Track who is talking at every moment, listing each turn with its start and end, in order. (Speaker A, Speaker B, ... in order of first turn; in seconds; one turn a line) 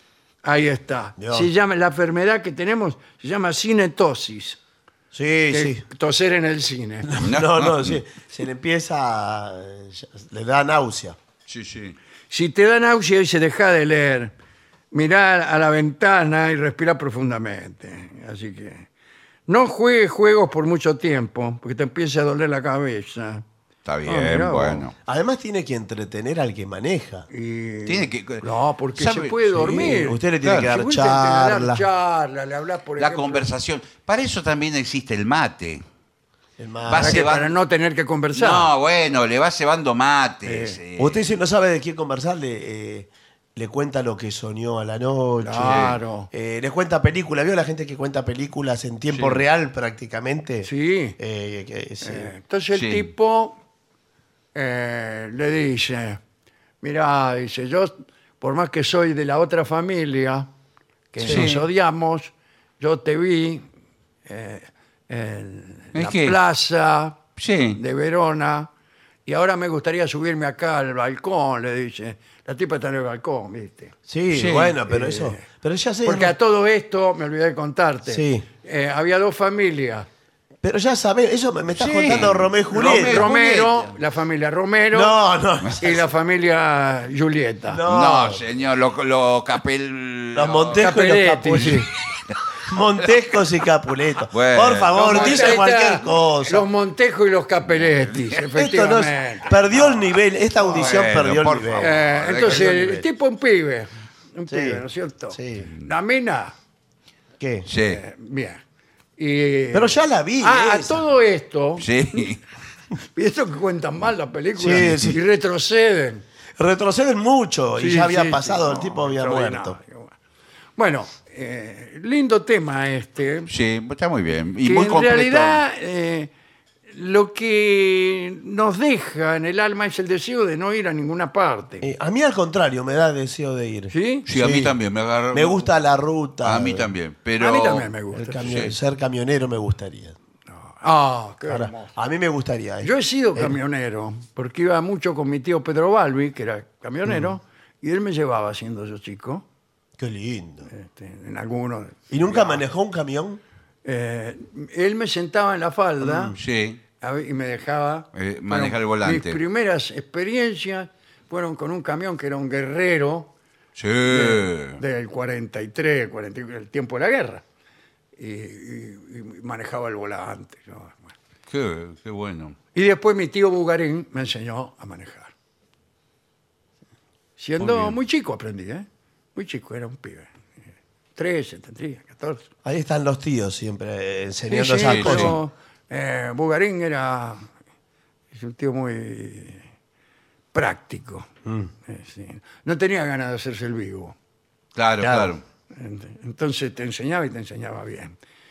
Speaker A: 0.4-4.6
Speaker B: 1.2-1.5
Speaker B: 5.1-5.8
Speaker A: 5.5-7.1
Speaker B: 7.0-11.2
Speaker C: 7.2-8.0
Speaker C: 11.5-12.0
Speaker A: 12.3-14.3
Speaker A: 14.9-18.9
Speaker A: 19.5-23.4
Speaker C: 23.9-24.9
Speaker A: 24.1-24.9
Speaker B: 25.1-27.3
Speaker A: 27.3-33.5
Speaker C: 27.9-29.4
Speaker B: 29.5-31.8
Speaker C: 30.4-30.7
Speaker C: 33.0-35.8
Speaker B: 36.6-37.2
Speaker C: 36.9-37.5
Speaker A: 37.0-38.7
Speaker C: 38.3-41.3
Speaker A: 40.4-40.8
Speaker B: 41.0-50.7
Speaker A: 45.4-46.3
Speaker C: 45.6-46.0
Speaker A: 49.1-49.4
Speaker A: 50.6-51.2
Speaker B: 51.2-52.3
Speaker A: 52.0-53.6
Speaker C: 52.7-53.1
Speaker A: 54.5-56.2
Speaker A: 56.8-60.5
Speaker A: 61.1-63.7
Speaker B: 61.2-61.5
Speaker C: 61.2-61.6
Speaker A: 64.3-67.2
Speaker C: 65.9-66.4
Speaker C: 67.4-67.8
Speaker A: 67.7-68.7
Speaker A: 69.3-73.9
Speaker B: 74.1-76.3
Speaker C: 74.3-74.8
Speaker A: 74.8-75.4
Speaker A: 76.0-80.1
Speaker B: 78.1-78.5
Speaker B: 80.6-83.3
Speaker C: 81.8-83.9
Speaker A: 82.8-85.2
Speaker B: 84.9-86.0
Speaker A: 85.8-87.8
Speaker B: 87.7-88.4
Speaker C: 87.9-90.9
Speaker B: 90.3-91.9
Speaker A: 90.8-91.8
Speaker C: 91.5-92.3
Speaker B: 92.7-96.7
Speaker C: 94.3-95.6
Speaker A: 94.9-100.2
Speaker B: 98.5-103.1
Speaker C: 100.7-102.7
Speaker A: 101.8-106.5
Speaker B: 104.5-105.7
Speaker B: 107.4-107.7
Speaker C: 107.7-108.0
Speaker A: 107.9-108.6
Speaker A: 109.2-111.9
Speaker B: 109.7-111.0
Speaker C: 111.8-112.4
Speaker A: 113.0-116.2
Speaker B: 114.6-115.2
Speaker B: 116.6-119.8
Speaker A: 117.8-120.1
Speaker A: 120.8-123.5
Speaker C: 123.5-125.6
Speaker A: 124.7-126.3
Speaker A: 126.9-131.9
Speaker B: 131.8-134.8
Speaker A: 133.9-134.3
Speaker C: 134.3-135.7
Speaker B: 135.3-136.9
Speaker C: 136.4-138.7
Speaker A: 137.4-138.5
Speaker B: 138.1-140.2
Speaker A: 140.5-141.9
Speaker B: 141.5-143.6
Speaker A: 142.8-149.4
Speaker B: 150.0-150.7
Speaker A: 150.7-152.7
Speaker B: 152.1-153.4
Speaker A: 153.8-156.4
Speaker B: 156.0-156.4
Speaker C: 156.4-156.8
Speaker A: 157.0-163.3
Speaker C: 158.1-159.4
Speaker C: 163.8-164.8
Speaker A: 164.1-167.4
Speaker A: 168.2-171.1
Speaker C: 171.5-172.6
Speaker A: 172.7-175.3
Speaker A: 177.4-180.3
Speaker C: 177.6-178.0
Speaker A: 181.2-182.5
Speaker B: 182.6-185.4
Speaker A: 184.5-187.4
Speaker C: 184.8-185.4
Speaker A: 188.3-189.6
Speaker A: 190.5-191.3
Speaker B: 191.4-191.7
Speaker A: 191.8-194.2
Speaker C: 194.8-195.4
Speaker B: 195.0-195.3
Speaker A: 195.7-198.2